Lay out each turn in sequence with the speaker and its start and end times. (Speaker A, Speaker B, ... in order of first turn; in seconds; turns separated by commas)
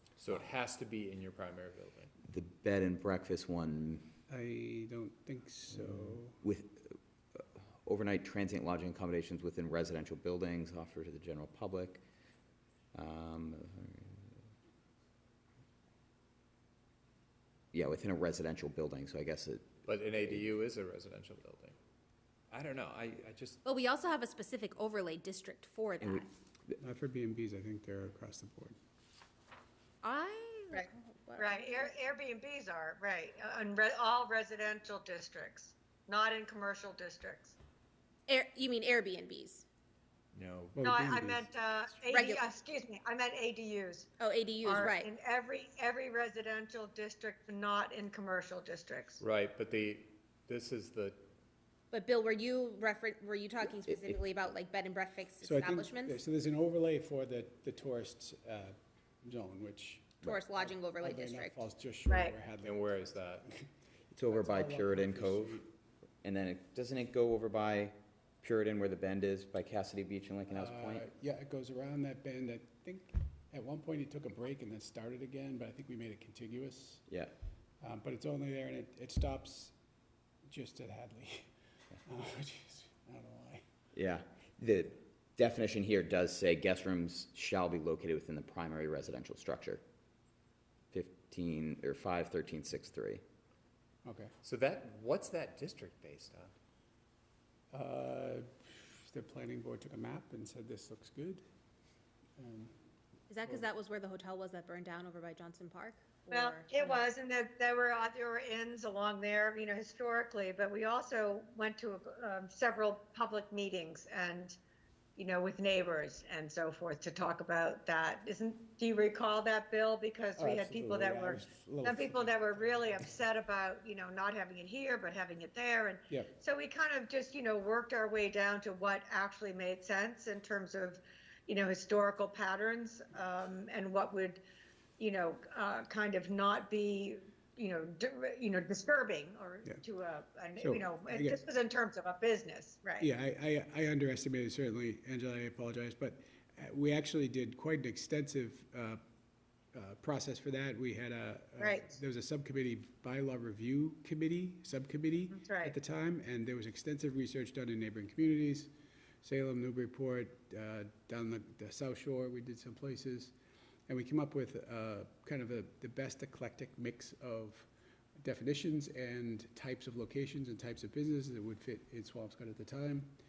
Speaker A: 0.2-2.1, Speaker B: 2.2-4.2, Speaker C: 4.3-6.4, Speaker B: 6.4-12.0, Speaker B: 12.9-14.3, Speaker B: 17.7-20.5, Speaker A: 19.9-21.8, Speaker A: 22.5-23.6, Speaker D: 23.6-26.3, Speaker C: 26.8-28.8, Speaker D: 30.0-31.9, Speaker E: 31.4-37.5, Speaker D: 38.3-39.6, Speaker A: 40.3-40.8, Speaker C: 40.7-41.5, Speaker E: 40.8-44.1, Speaker D: 42.1-42.4, Speaker D: 44.2-45.1, Speaker E: 44.6-49.2, Speaker A: 49.2-51.2, Speaker D: 51.9-56.2, Speaker C: 55.4-63.7, Speaker D: 60.2-61.6, Speaker E: 62.1-62.3, Speaker A: 62.6-63.5, Speaker B: 64.1-65.7, Speaker C: 64.3-65.7, Speaker B: 66.2-71.0, Speaker C: 70.5-77.0, Speaker C: 77.8-79.7, Speaker C: 80.5-81.5, Speaker C: 82.0-83.6, Speaker B: 83.9-89.8, Speaker B: 90.9-93.2, Speaker C: 94.0-94.3, Speaker A: 94.4-96.5, Speaker C: 97.7-101.4, Speaker C: 102.4-102.7, Speaker D: 103.3-107.0, Speaker E: 106.3-114.5, Speaker E: 115.2-134.4, Speaker C: 120.4-123.1, Speaker E: 135.0-143.1, Speaker C: 140.6-141.4, Speaker C: 143.0-149.0, Speaker C: 149.7-158.7, Speaker E: 151.6-151.9, Speaker E: 155.3-155.7, Speaker C: 159.2-163.3, Speaker C: 163.9-167.7, Speaker C: 168.2-173.1